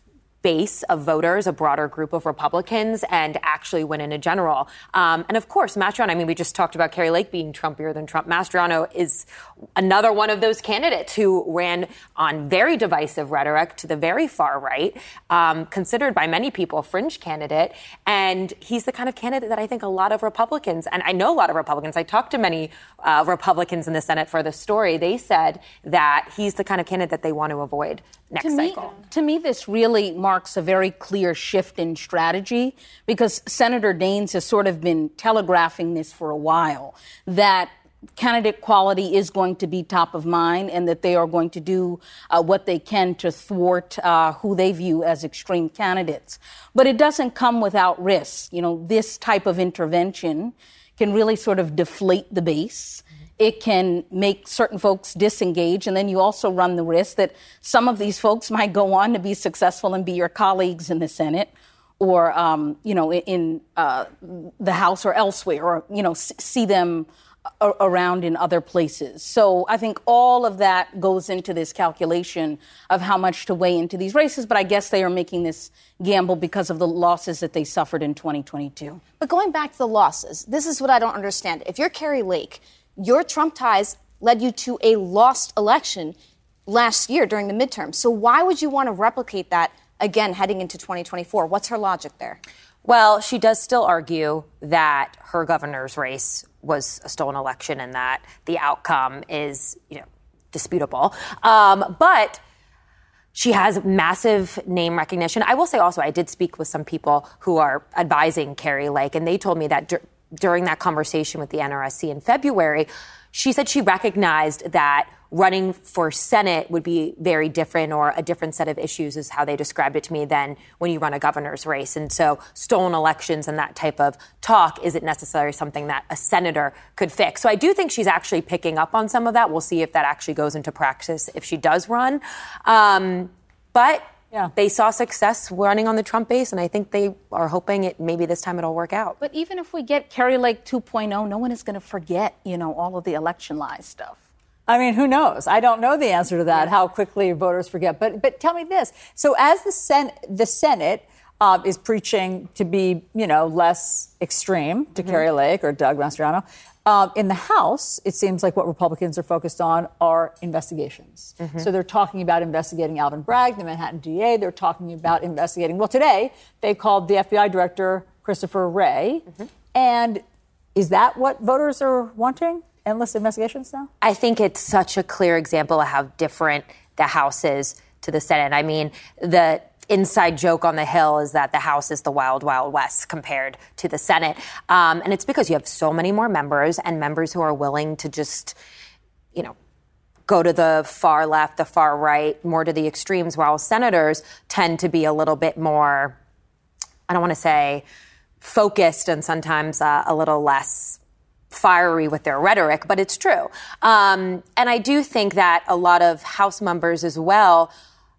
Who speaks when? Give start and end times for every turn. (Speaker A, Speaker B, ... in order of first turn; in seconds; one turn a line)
Speaker A: 0.4-29.0
Speaker B: 28.4-67.1
Speaker B: 67.6-79.0
Speaker C: 79.2-86.2
Speaker C: 86.7-92.4
Speaker A: 92.8-102.4
Speaker A: 103.3-139.2
Speaker B: 139.2-144.2
Speaker D: 144.7-169.2
Speaker A: 161.4-161.7
Speaker D: 169.8-170.2
Speaker D: 170.8-173.9
Speaker A: 174.0-188.6
Speaker A: 190.3-196.2
Speaker A: 197.1-197.8
Speaker A: 198.4-201.0
Speaker A: 201.5-207.7